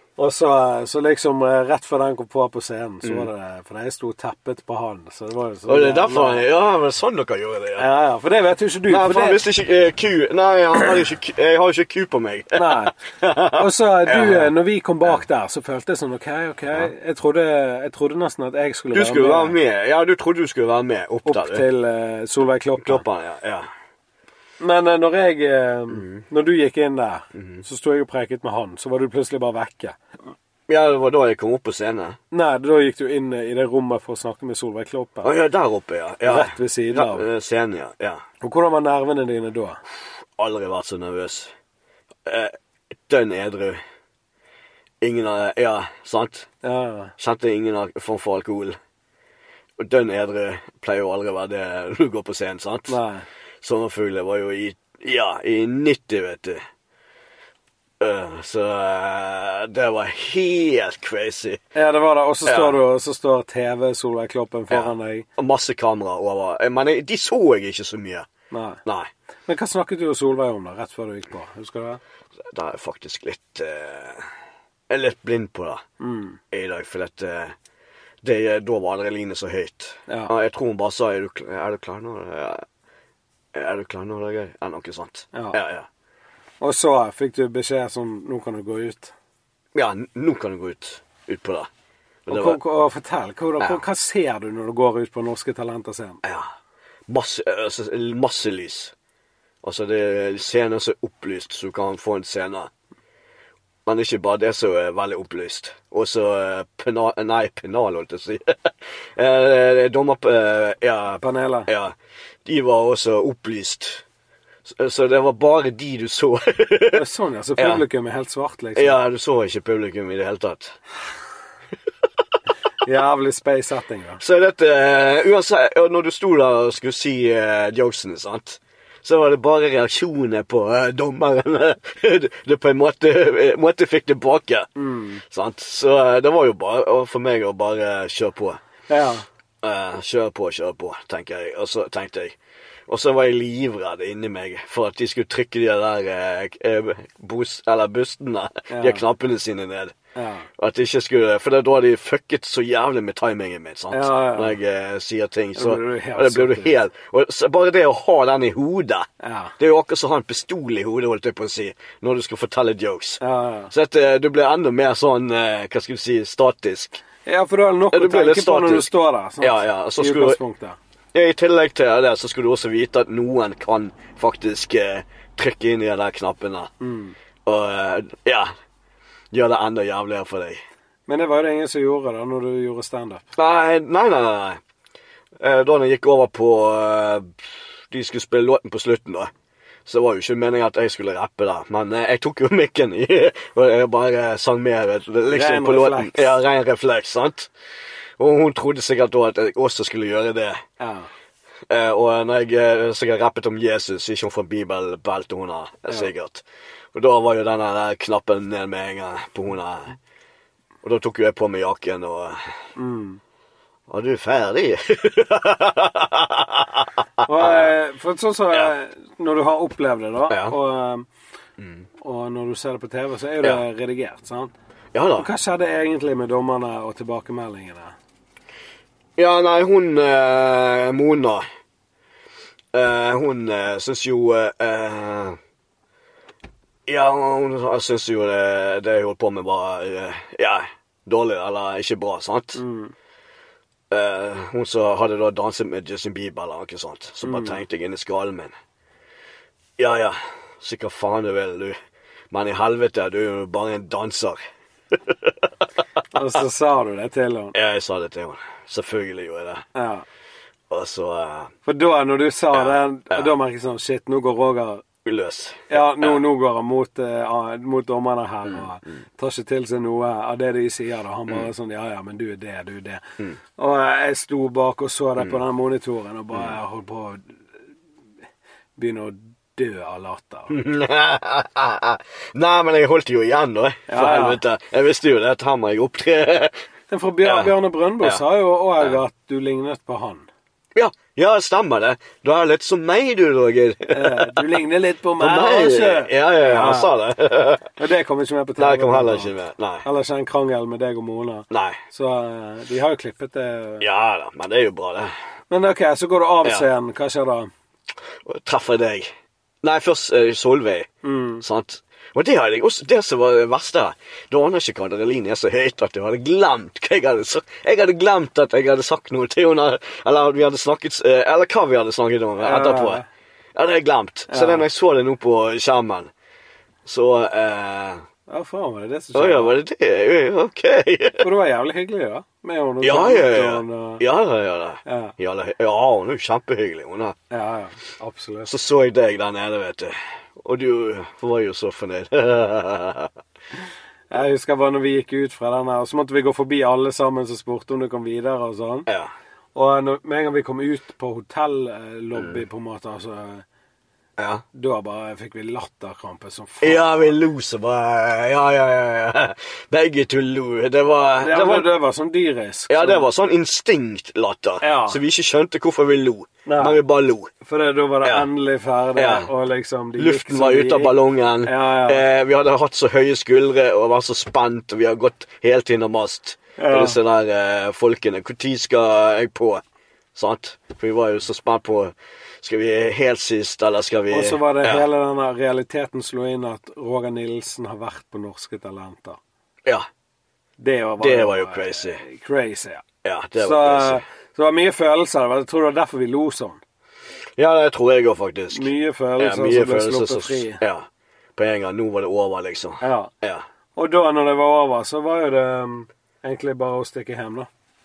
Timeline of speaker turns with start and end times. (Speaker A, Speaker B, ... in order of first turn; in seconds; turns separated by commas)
Speaker A: 0.2-6.4, Speaker B: 3.0-3.3, Speaker B: 5.7-7.9, Speaker A: 7.8-9.4, Speaker B: 8.9-14.5, Speaker A: 12.5-12.9, Speaker A: 13.5-19.6, Speaker B: 18.9-21.6, Speaker A: 21.2-23.0, Speaker B: 22.8-23.7, Speaker A: 24.6-30.0, Speaker B: 25.9-26.2, Speaker B: 27.3-27.6, Speaker B: 30.7-32.2, Speaker A: 32.3-35.3, Speaker B: 35.2-38.2, Speaker A: 36.2-37.2, Speaker A: 38.4-39.8, Speaker B: 40.4-41.5, Speaker B: 42.2-42.5, Speaker B: 43.0-43.8, Speaker B: 45.0-46.5, Speaker A: 46.6-47.1, Speaker B: 47.2-48.8, Speaker B: 49.8-53.0, Speaker A: 52.9-53.2, Speaker B: 53.6-56.6, Speaker B: 58.0-61.6, Speaker A: 61.7-65.2, Speaker B: 62.5-62.8, Speaker B: 64.7-68.3, Speaker A: 68.5-68.8, Speaker B: 68.8-69.1, Speaker A: 69.5-72.0, Speaker B: 72.5-74.3, Speaker B: 74.9-75.8, Speaker A: 76.0-76.4, Speaker B: 76.5-77.5, Speaker B: 78.2-82.6, Speaker B: 83.5-85.9, Speaker A: 86.6-89.1, Speaker B: 89.7-91.7, Speaker B: 92.2-92.6, Speaker A: 92.3-96.2, Speaker B: 96.2-96.5, Speaker B: 97.1-98.9, Speaker B: 99.6-102.7, Speaker B: 103.8-114.0, Speaker A: 111.2-111.7, Speaker B: 114.7-117.0, Speaker A: 116.9-119.0, Speaker B: 117.6-117.8, Speaker B: 118.8-120.8, Speaker A: 122.8-124.2, Speaker B: 124.2-134.7, Speaker A: 134.8-135.2, Speaker B: 135.2-138.6, Speaker A: 138.9-139.2, Speaker B: 139.6-142.3, Speaker B: 142.9-149.9, Speaker A: 148.7-149.0, Speaker A: 150.1-150.5, Speaker B: 150.6-159.1, Speaker A: 153.9-154.6, Speaker A: 155.6-156.8, Speaker A: 159.2-159.5, Speaker B: 159.6-167.0, Speaker A: 163.2-163.7, Speaker A: 167.2-170.8, Speaker B: 167.9-168.9, Speaker B: 169.4-170.4, Speaker B: 171.1-176.7, Speaker A: 176.8-177.2, Speaker B: 177.5-178.5, Speaker B: 179.3-180.6, Speaker A: 181.1-183.3, Speaker B: 183.4-184.6, Speaker B: 185.4-189.3, Speaker B: 189.8-197.5, Speaker A: 195.3-196.4, Speaker B: 198.2-200.6, Speaker A: 200.8-201.1, Speaker B: 201.7-210.0, Speaker B: 210.8-212.5, Speaker A: 212.8-213.2, Speaker B: 213.9-217.7, Speaker A: 217.2-221.1, Speaker B: 220.3-220.6, Speaker B: 221.6-221.8, Speaker A: 222.0-224.5, Speaker B: 224.9-225.3, Speaker A: 225.2-228.0, Speaker B: 229.2-231.4, Speaker B: 232.7-235.4, Speaker B: 236.9-242.6, Speaker A: 242.6-242.9, Speaker B: 243.9-248.5, Speaker A: 247.2-247.6, Speaker B: 249.8-251.8, Speaker B: 252.3-254.4, Speaker B: 254.9-255.5, Speaker A: 256.1-257.5, Speaker B: 257.5-259.6, Speaker A: 259.8-260.0, Speaker B: 260.7-261.5, Speaker A: 261.6-264.8, Speaker B: 262.5-263.3, Speaker B: 265.0-266.2, Speaker A: 265.7-273.0, Speaker A: 273.6-277.4, Speaker A: 278.8-280.6, Speaker B: 280.5-286.5, Speaker A: 283.9-284.4, Speaker A: 286.9-290.3, Speaker B: 287.2-288.2, Speaker B: 290.8-294.4, Speaker A: 293.9-296.9, Speaker B: 295.2-297.7, Speaker A: 297.8-299.3, Speaker B: 298.6-299.9, Speaker A: 299.8-303.9, Speaker B: 301.5-301.8, Speaker B: 303.8-305.1, Speaker A: 305.5-307.5, Speaker B: 308.2-309.1, Speaker B: 309.6-310.9, Speaker A: 311.0-311.4, Speaker B: 311.4-323.0, Speaker A: 322.4-323.1, Speaker B: 323.5-326.1, Speaker A: 324.3-324.6, Speaker B: 326.9-328.0, Speaker A: 328.3-329.5, Speaker B: 329.1-331.3, Speaker A: 331.2-334.0, Speaker B: 332.8-337.1, Speaker A: 334.8-335.1, Speaker A: 337.3-338.5, Speaker B: 338.5-343.1, Speaker A: 344.1-348.9, Speaker A: 349.5-353.4, Speaker B: 352.1-352.4, Speaker B: 354.2-354.4, Speaker A: 354.5-357.1, Speaker B: 356.6-361.7, Speaker A: 361.2-363.1, Speaker B: 362.7-367.3, Speaker A: 364.6-365.0, Speaker A: 366.4-366.8, Speaker A: 367.4-372.1, Speaker B: 368.9-369.3, Speaker B: 370.0-379.6, Speaker A: 376.6-377.0, Speaker B: 380.1-384.8, Speaker A: 384.1-389.2, Speaker A: 390.6-392.8, Speaker B: 391.0-392.0, Speaker B: 393.0-394.0, Speaker A: 393.4-396.6, Speaker B: 397.4-403.4, Speaker A: 398.5-400.6, Speaker A: 402.8-403.1, Speaker A: 403.8-407.5